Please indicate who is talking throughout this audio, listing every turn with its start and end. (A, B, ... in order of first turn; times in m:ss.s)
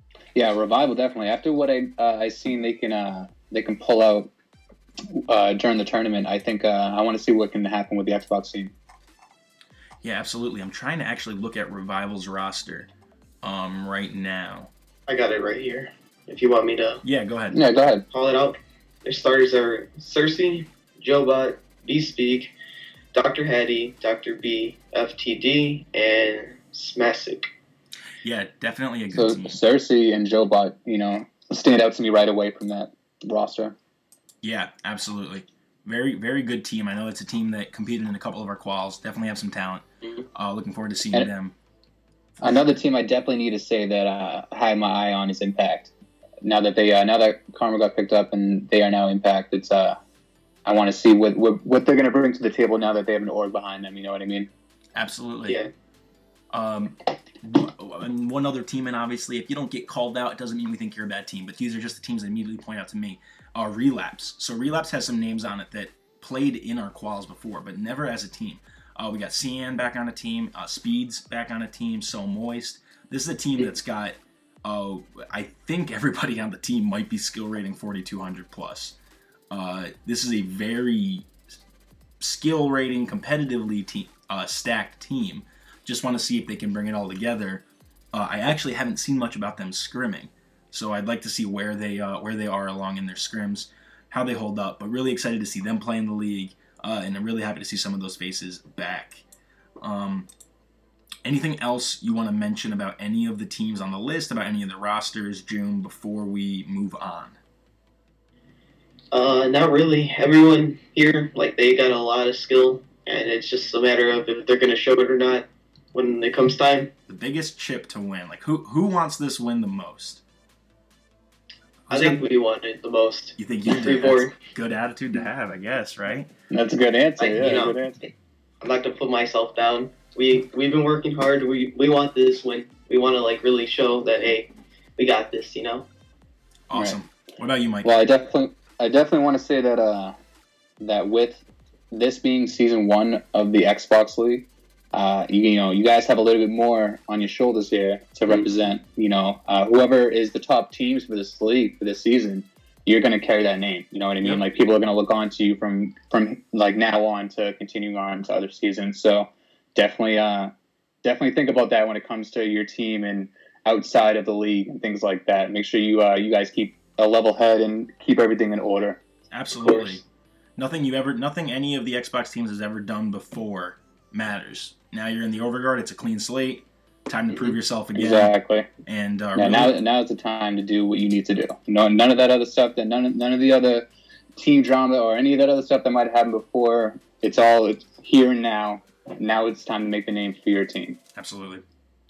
0:00.3-0:04.3 A
0:05.1-0:08.7 A
0:10.0-0:12.9 B
0:13.4-0:14.7 B
0:15.1-0:17.0 C
0:17.0-0:17.6 B
0:17.5-0:18.0 A
0:18.1-0:22.5 C
0:23.1-0:27.5 C
0:28.2-0:29.6 B
0:29.1-0:33.8 A
0:34.4-0:39.8 B
0:40.3-0:41.5 B
0:42.4-0:42.6 B
0:42.4-0:45.9 A
0:46.4-0:50.0 A
0:50.6-0:54.5 A
0:54.9-0:55.6 B
0:56.5-1:19.0 B
1:19.5-1:21.3 B
1:22.2-1:39.2 B
1:39.8-1:40.3 B
1:41.2-1:47.4 B
1:49.1-1:56.9 C
1:57.1-2:00.2 B
2:01.9-2:02.2 B
2:01.9-2:04.3 C
2:03.4-2:06.3 B
2:06.5-2:07.9 A
2:07.2-2:15.9 C
2:16.7-2:18.0 B
2:17.8-2:20.2 A
2:20.8-2:40.5 A
2:41.0-2:49.0 A
2:49.3-2:50.0 B
2:49.5-2:50.0 A
2:50.6-2:58.3 B
2:57.9-2:58.7 A
2:58.8-2:59.8 B
2:59.3-3:03.8 A
3:04.4-3:11.0 A
3:11.2-3:11.6 B